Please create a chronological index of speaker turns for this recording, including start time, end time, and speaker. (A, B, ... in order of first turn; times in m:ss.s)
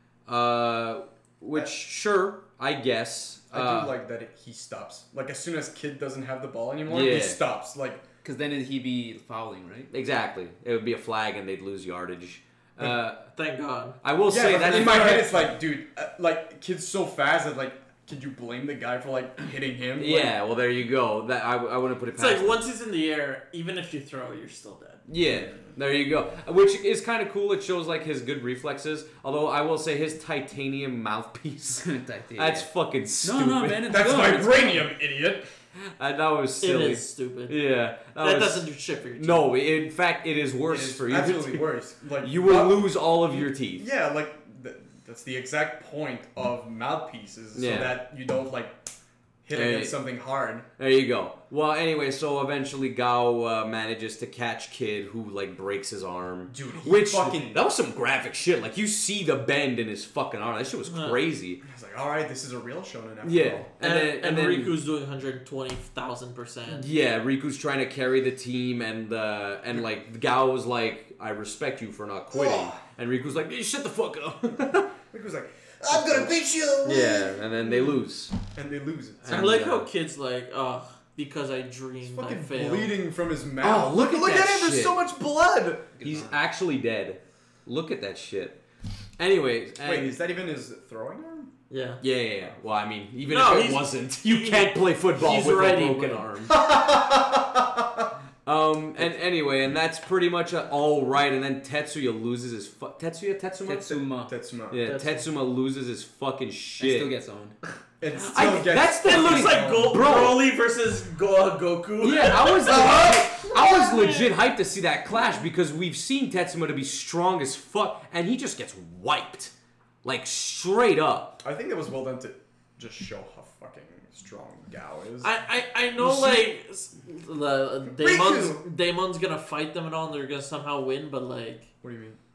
0:00.3-0:03.9 A
0:03.5-0:08.0 B
0:06.9-0:07.4 A
0:08.2-0:09.9 C
0:09.9-0:13.3 A
0:13.3-0:14.0 D
0:14.0-0:15.5 A
0:14.3-0:20.3 B
0:20.0-0:22.6 A
0:22.1-0:25.0 D
0:25.1-0:33.9 A
0:31.8-0:32.7 C
0:33.2-0:34.9 C
0:33.9-0:35.5 B
0:35.8-0:38.6 A
0:36.6-0:37.6 D
0:38.2-0:39.5 D
0:39.2-0:41.7 A
0:40.7-0:48.8 B
0:42.2-0:43.8 A
0:47.5-0:48.0 A
0:49.4-0:50.7 B
0:49.5-0:49.9 A
0:50.8-1:01.6 A
0:56.5-0:57.6 B
1:00.8-1:01.2 D
1:01.6-1:03.7 B
1:03.2-1:04.8 A
1:03.8-1:06.9 D
1:06.7-1:14.9 A
1:12.3-1:12.8 B
1:15.1-1:18.0 B
1:15.9-1:18.3 A
1:18.5-1:19.5 B
1:19.2-1:19.9 A
1:19.3-1:23.0 D
1:22.0-1:25.9 B
1:23.6-1:25.0 A
1:25.9-1:26.3 C
1:26.0-1:28.6 A
1:29.2-1:30.2 A
1:29.8-1:31.5 B
1:31.7-1:32.0 D
1:32.0-1:36.7 A
1:33.3-1:36.3 D
1:36.5-1:37.6 B
1:38.4-1:44.0 A
1:43.6-1:44.3 C
1:44.3-1:44.8 B
1:44.7-1:47.1 A
1:44.8-1:45.3 D
1:46.8-1:47.6 C
1:48.0-1:50.2 B
1:48.2-1:50.4 A
1:49.0-1:54.3 D
1:52.0-1:59.5 A
1:52.7-1:53.4 B
2:00.0-2:01.4 A
2:01.4-2:05.3 B
2:05.2-2:11.7 D
2:06.0-2:06.4 B
2:07.9-2:08.6 B
2:11.8-2:12.2 B